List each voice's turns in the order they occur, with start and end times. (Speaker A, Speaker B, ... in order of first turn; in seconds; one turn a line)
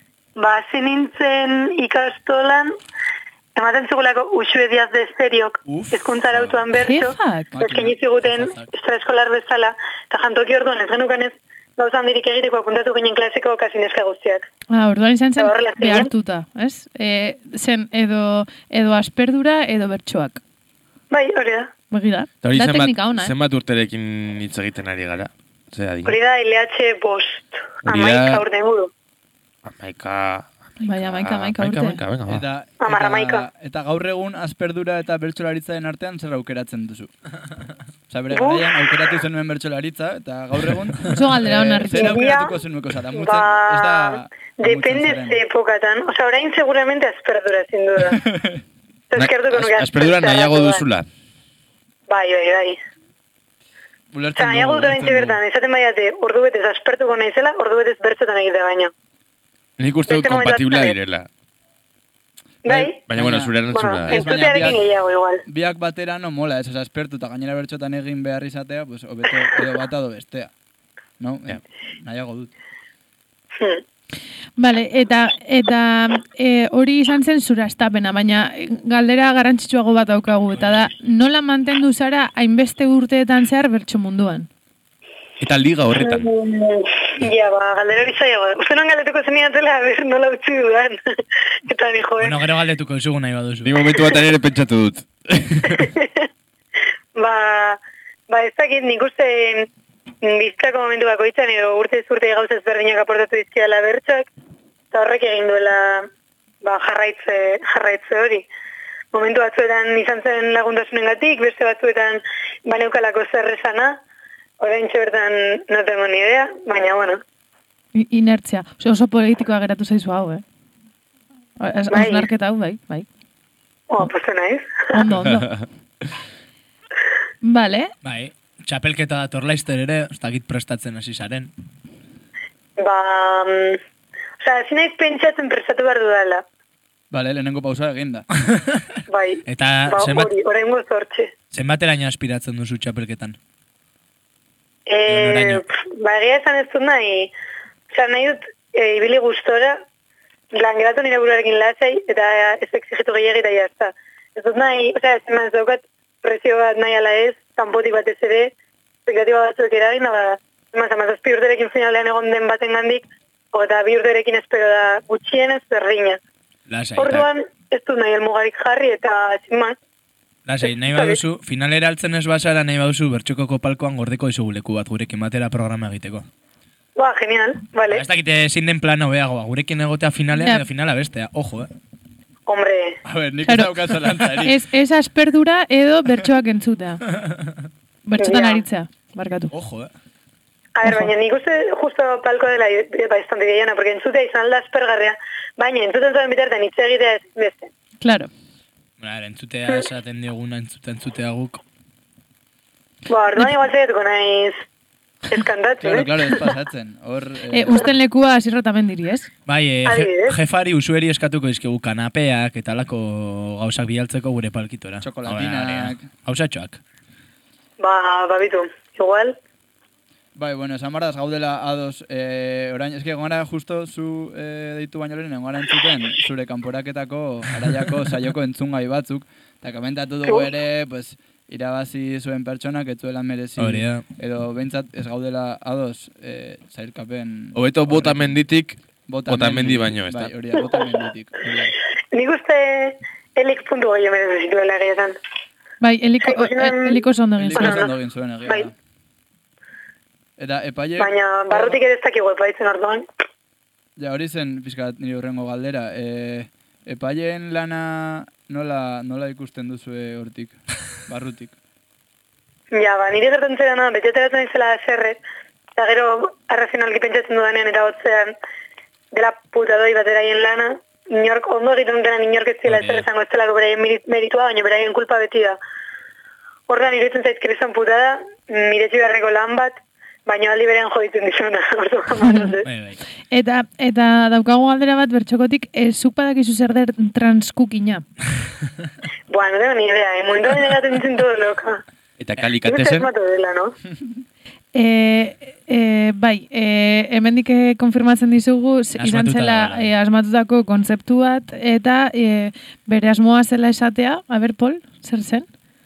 Speaker A: 0.4-2.7
Speaker A: 3.6-14.5
Speaker B: 6.7-7.5
Speaker C: 7.5-8.7
Speaker B: 14.7-20.4
Speaker A: 15.4-16.1
Speaker A: 21.1-21.7
Speaker B: 21.9-23.3
Speaker D: 22.4-26.1
Speaker A: 26.0-28.9
Speaker D: 27.9-28.4
Speaker D: 29.6-32.5
Speaker B: 30.8-32.0
Speaker C: 32.3-37.1
Speaker A: 32.8-33.5
Speaker C: 38.1-45.4
Speaker A: 38.3-38.8
Speaker B: 41.1-42.2
Speaker A: 42.0-42.6
Speaker A: 43.1-48.2
Speaker C: 48.1-48.6
Speaker A: 49.1-50.9
Speaker D: 49.1-51.1
Speaker A: 52.1-52.8
Speaker C: 54.1-55.4
Speaker A: 54.4-58.9
Speaker D: 59.8-61.3
Speaker A: 60.1-61.0
Speaker A: 62.6-63.1
Speaker C: 62.7-64.9
Speaker D: 63.1-64.7
Speaker A: 63.7-65.4
Speaker C: 65.5-70.5
Speaker C: 71.2-72.5
Speaker A: 73.6-73.8
Speaker B: 74.6-84.5
Speaker D: 85.4-86.3
Speaker A: 86.0-91.0
Speaker A: 91.7-92.5
Speaker E: 92.2-93.8
Speaker D: 93.6-95.9
Speaker A: 95.7-96.2
Speaker A: 97.2-99.7
Speaker A: 100.2-104.3
Speaker A: 104.9-106.1
Speaker A: 106.6-108.5
Speaker A: 109.1-114.0
Speaker A: 114.6-117.2
Speaker B: 118.0-120.4
Speaker B: 121.6-123.1
Speaker A: 121.9-122.3
Speaker A: 123.9-125.0
Speaker B: 124.9-125.5
Speaker D: 125.4-125.6
Speaker B: 127.4-127.9
Speaker E: 128.0-131.5
Speaker A: 132.8-133.8
Speaker A: 134.4-136.4
Speaker C: 137.1-138.3
Speaker A: 139.1-141.3
Speaker E: 139.5-140.3
Speaker E: 141.5-143.4
Speaker A: 144.9-147.3
Speaker E: 145.1-145.6
Speaker A: 147.9-149.8
Speaker A: 150.5-158.5
Speaker A: 159.1-166.2
Speaker E: 166.7-167.3
Speaker A: 167.0-169.8
Speaker E: 170.5-176.3
Speaker A: 170.6-171.2
Speaker A: 177.0-178.1
Speaker E: 177.9-181.7
Speaker B: 180.4-180.6
Speaker A: 182.5-183.0
Speaker C: 183.1-184.6
Speaker B: 183.5-183.7
Speaker B: 184.4-187.0
Speaker B: 188.1-189.5
Speaker A: 188.2-188.7
Speaker E: 189.5-189.9
Speaker A: 190.8-197.7
Speaker B: 198.0-198.3
Speaker E: 199.0-201.6
Speaker A: 203.1-204.6
Speaker A: 205.3-206.4
Speaker C: 205.8-207.9
Speaker B: 207.5-209.3
Speaker E: 209.5-216.8
Speaker A: 209.8-210.4
Speaker C: 215.0-216.1
Speaker A: 217.8-219.4
Speaker C: 220.3-238.4
Speaker A: 230.2-230.5
Speaker E: 233.6-234.0
Speaker D: 237.6-240.3
Speaker C: 239.1-241.8
Speaker A: 240.6-240.9
Speaker A: 242.1-245.2
Speaker B: 245.8-247.8
Speaker A: 246.2-247.1
Speaker C: 247.4-248.7
Speaker A: 247.6-248.7
Speaker C: 250.4-251.8
Speaker A: 251.0-253.1
Speaker C: 254.0-261.5
Speaker A: 262.7-265.2
Speaker A: 265.8-268.3
Speaker A: 269.1-275.6
Speaker E: 272.7-273.1
Speaker A: 276.7-279.8
Speaker A: 280.3-282.7
Speaker E: 282.6-283.0
Speaker B: 283.3-288.0
Speaker A: 289.3-291.8
Speaker D: 292.2-293.1
Speaker A: 292.6-293.7
Speaker B: 294.8-305.5
Speaker E: 299.0-299.9